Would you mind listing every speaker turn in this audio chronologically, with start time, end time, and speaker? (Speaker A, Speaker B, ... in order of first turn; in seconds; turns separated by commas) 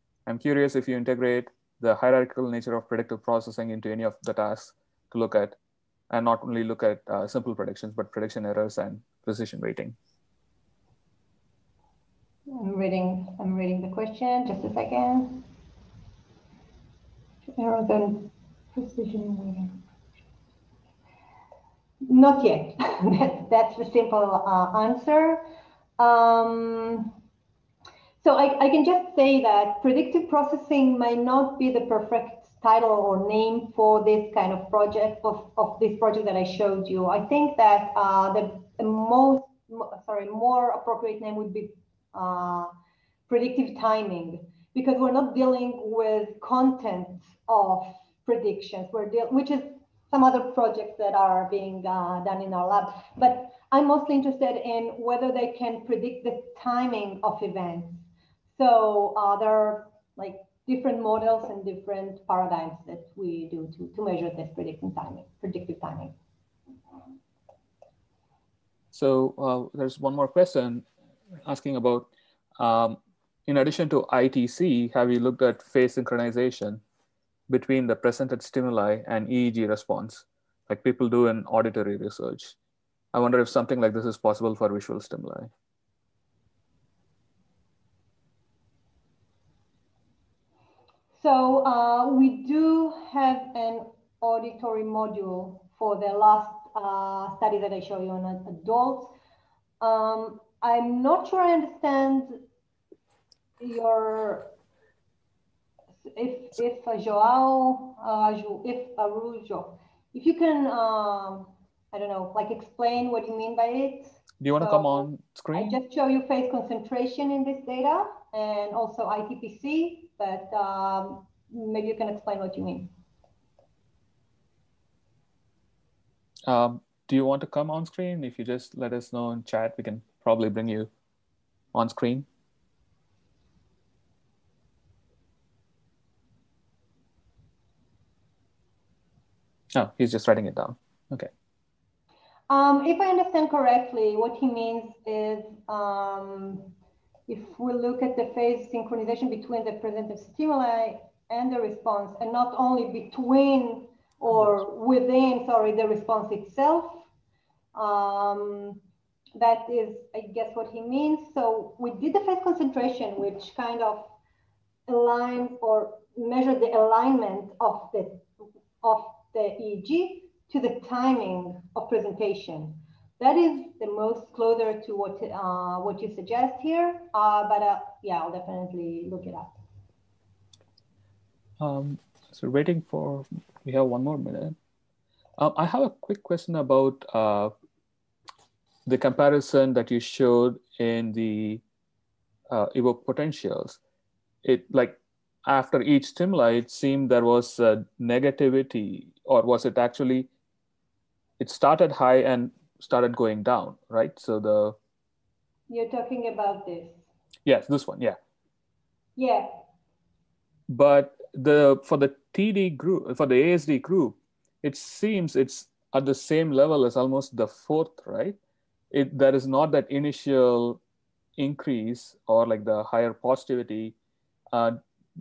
Speaker A: 0.3-5.6, Speaker A: 6.1-9.9, Speaker B: 12.5-15.4, Speaker B: 17.5-19.7, Speaker B: 22.1-25.4, Speaker B: 26.0-27.1, Speaker B: 28.2-42.7, Speaker B: 43.3-66.2, Speaker A: 68.9-70.9, Speaker A: 71.5-76.8, Speaker A: 77.5-82.6, Speaker A: 83.1-85.5, Speaker B: 91.1-99.1, Speaker B: 99.8-102.4, Speaker B: 103.6-104.5, Speaker B: 106.1-122.9, Speaker A: 114.4-115.7, Speaker A: 126.5-130.9, Speaker A: 131.7-132.3, Speaker A: 139.8-141.3, Speaker B: 142.5-146.7, Speaker B: 147.3-157.1, Speaker B: 157.8-158.8, Speaker B: 159.4-164.1, Speaker B: 164.9-168.3, Speaker B: 168.8-179.6, Speaker A: 181.6-184.6, Speaker A: 185.4-187.5, Speaker A: 188.9-191.6, Speaker A: 192.5-193.8, Speaker A: 194.4-200.3, Speaker A: 201.4-204.8, Speaker B: 205.7-207.1, Speaker A: 207.5-208.2, Speaker B: 209.2-209.6, Speaker A: 210.7-218.4, Speaker A: 218.9-220.8, Speaker A: 221.4-223.9, Speaker A: 224.5-224.8